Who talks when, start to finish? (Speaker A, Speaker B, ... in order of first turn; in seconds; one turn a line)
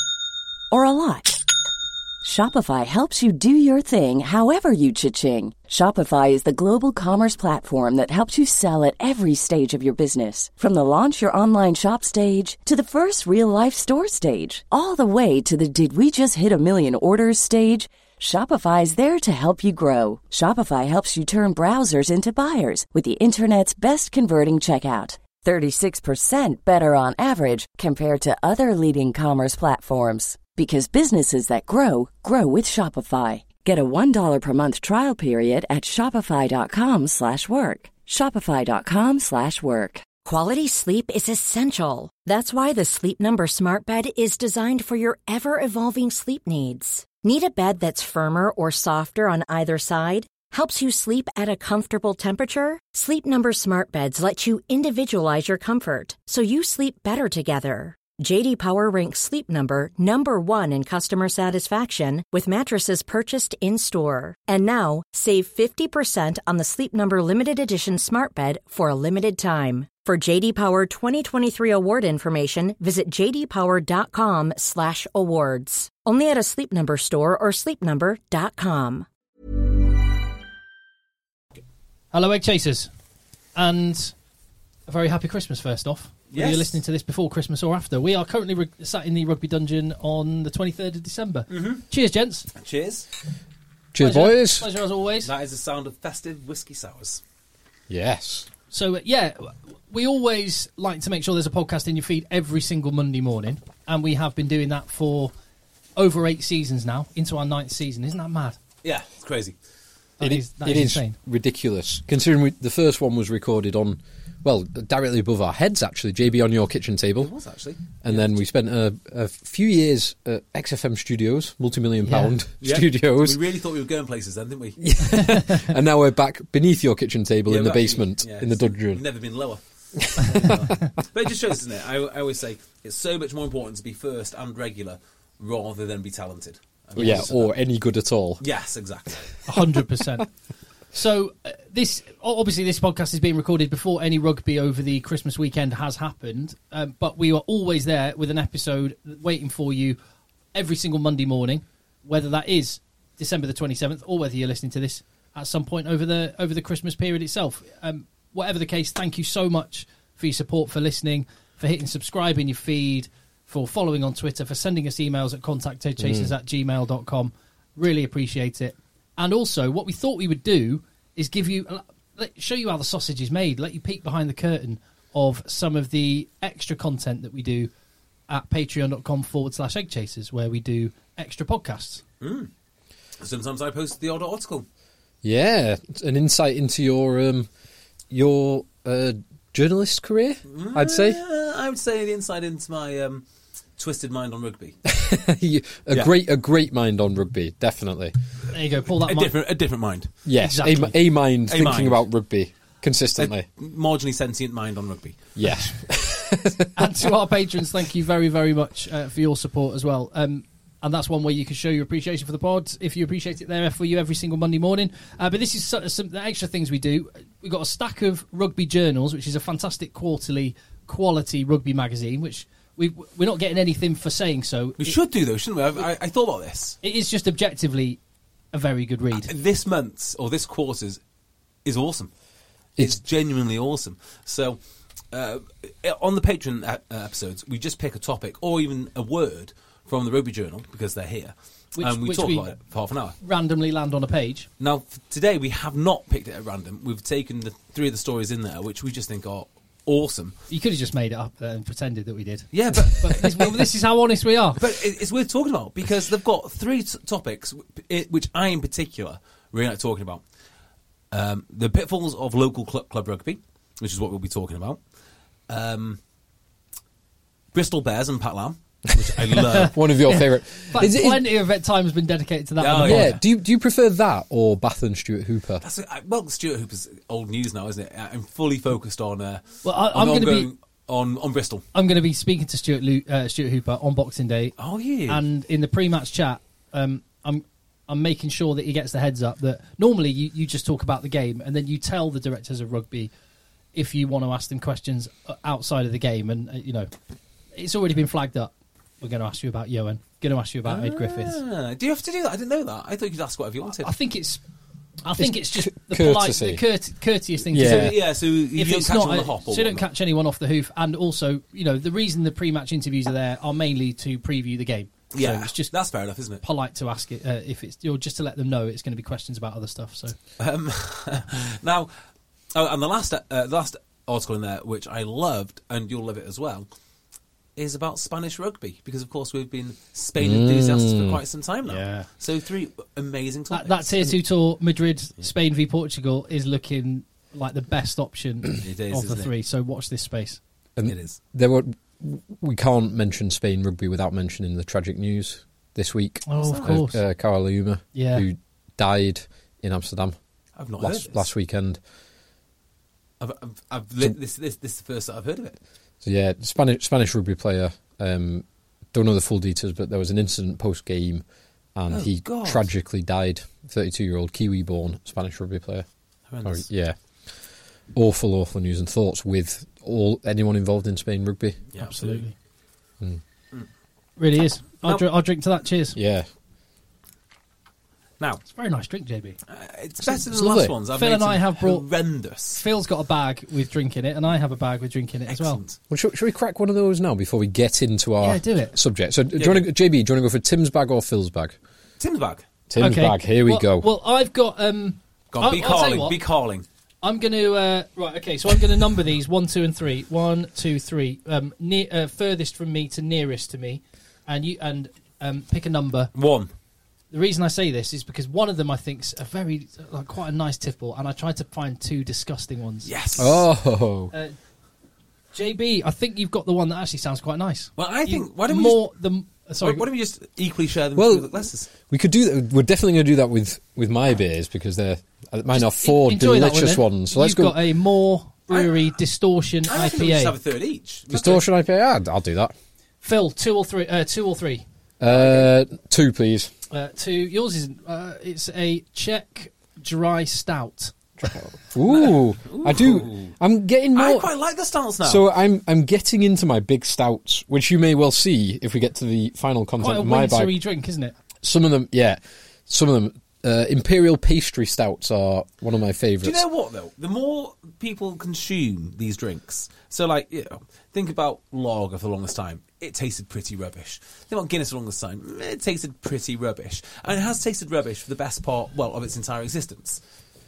Speaker A: 0.7-1.4
Speaker A: 2.2-40.1
Speaker B: 40.2-79.1
Speaker C: 82.1-82.9
Speaker C: 83.5-84.1
Speaker C: 84.9-92.5
Speaker D: 86.3-86.7
Speaker D: 91.5-91.8
Speaker D: 92.5-93.1
Speaker E: 93.9-94.7
Speaker C: 94.0-95.3
Speaker D: 95.2-97.2
Speaker E: 97.9-98.5
Speaker C: 98.7-105.3
Speaker C: 106.0-108.6
Speaker D: 108.8-109.5
Speaker C: 110.2-111.1
Speaker E: 110.2-117.3
Speaker D: 117.2-118.1
Speaker E: 118.0-123.4
Speaker C: 122.0-122.3
Speaker D: 122.6-124.9
Speaker E: 124.8-129.0
Speaker D: 127.5-137.5
Speaker E: 129.9-130.7
Speaker E: 136.9-138.4
Speaker D: 138.4-139.3
Speaker C: 139.5-140.3
Speaker C: 140.9-150.0
Speaker C: 150.5-177.7
Speaker E: 166.0-166.3
Speaker C: 178.3-182.0
Speaker D: 182.2-182.5
Speaker D: 183.2-184.7
Speaker E: 185.2-187.5
Speaker E: 188.1-191.2
Speaker D: 190.5-193.2
Speaker D: 193.8-194.8
Speaker E: 194.8-198.1
Speaker C: 198.5-199.3
Speaker D: 199.1-200.1
Speaker E: 200.2-203.4
Speaker C: 200.4-200.9
Speaker D: 201.5-202.0
Speaker D: 203.2-205.2
Speaker E: 205.3-206.9
Speaker C: 206.8-224.9
Speaker D: 224.8-226.8
Speaker C: 226.8-228.0
Speaker C: 228.5-229.3
Speaker D: 229.1-231.0
Speaker D: 231.6-232.1
Speaker D: 232.8-234.6
Speaker D: 235.1-243.2
Speaker C: 241.8-242.5
Speaker C: 243.2-244.5
Speaker D: 244.6-250.4
Speaker C: 250.5-254.6
Speaker D: 252.5-253.7
Speaker D: 254.6-260.2
Speaker D: 261.1-264.8
Speaker D: 265.5-266.0
Speaker D: 267.5-269.8
Speaker C: 269.4-273.2
Speaker E: 269.6-271.2
Speaker D: 272.6-273.1
Speaker E: 272.8-275.6
Speaker D: 275.6-281.6
Speaker C: 279.6-280.5
Speaker C: 281.7-284.5
Speaker D: 284.6-285.2
Speaker C: 285.1-293.1
Speaker C: 293.7-296.9
Speaker C: 297.5-301.4
Speaker D: 300.6-303.9
Speaker C: 303.8-304.4
Speaker C: 305.0-308.0
Speaker E: 305.2-306.6
Speaker E: 307.5-308.0
Speaker D: 307.5-309.8
Speaker C: 308.5-315.7
Speaker D: 315.1-316.4
Speaker C: 316.4-320.1
Speaker D: 320.4-321.9
Speaker D: 322.5-326.7
Speaker D: 327.6-333.9
Speaker E: 330.2-331.2
Speaker C: 331.7-332.1
Speaker C: 333.5-340.4
Speaker D: 338.6-339.3
Speaker E: 340.8-350.1
Speaker D: 340.8-341.2
Speaker C: 346.3-347.0
Speaker D: 346.4-346.7
Speaker C: 347.9-348.2
Speaker D: 350.6-351.2
Speaker E: 350.8-351.8
Speaker D: 353.2-355.6
Speaker E: 356.0-361.2
Speaker E: 361.7-365.9
Speaker D: 361.9-362.7
Speaker D: 366.3-366.6
Speaker E: 366.4-366.9
Speaker E: 367.9-371.7
Speaker D: 371.7-372.2
Speaker C: 371.8-372.3
Speaker C: 374.2-375.9
Speaker E: 375.9-376.3
Speaker C: 378.5-379.4
Speaker D: 379.5-382.6
Speaker E: 380.0-380.7
Speaker C: 380.9-381.9
Speaker C: 382.6-385.6
Speaker D: 385.3-385.8
Speaker E: 385.9-391.6
Speaker C: 388.2-388.8
Speaker D: 389.4-389.7
Speaker D: 392.0-392.4
Speaker E: 392.7-393.9
Speaker C: 392.8-396.2
Speaker D: 395.3-396.6
Speaker C: 397.0-406.1
Speaker D: 406.1-406.5
Speaker C: 407.1-412.9
Speaker D: 412.8-413.4
Speaker E: 413.2-414.1
Speaker C: 415.3-419.9
Speaker D: 417.8-418.9
Speaker D: 419.6-421.7
Speaker E: 420.9-427.6
Speaker C: 425.5-430.3
Speaker D: 428.5-428.9
Speaker D: 429.7-431.4
Speaker E: 431.1-432.5
Speaker C: 433.0-435.5
Speaker E: 435.0-436.5
Speaker C: 436.7-441.3
Speaker E: 441.2-444.3
Speaker D: 442.1-443.3
Speaker D: 443.9-445.2
Speaker E: 445.0-450.6
Speaker C: 449.8-451.1
Speaker E: 451.4-456.4
Speaker D: 456.2-470.0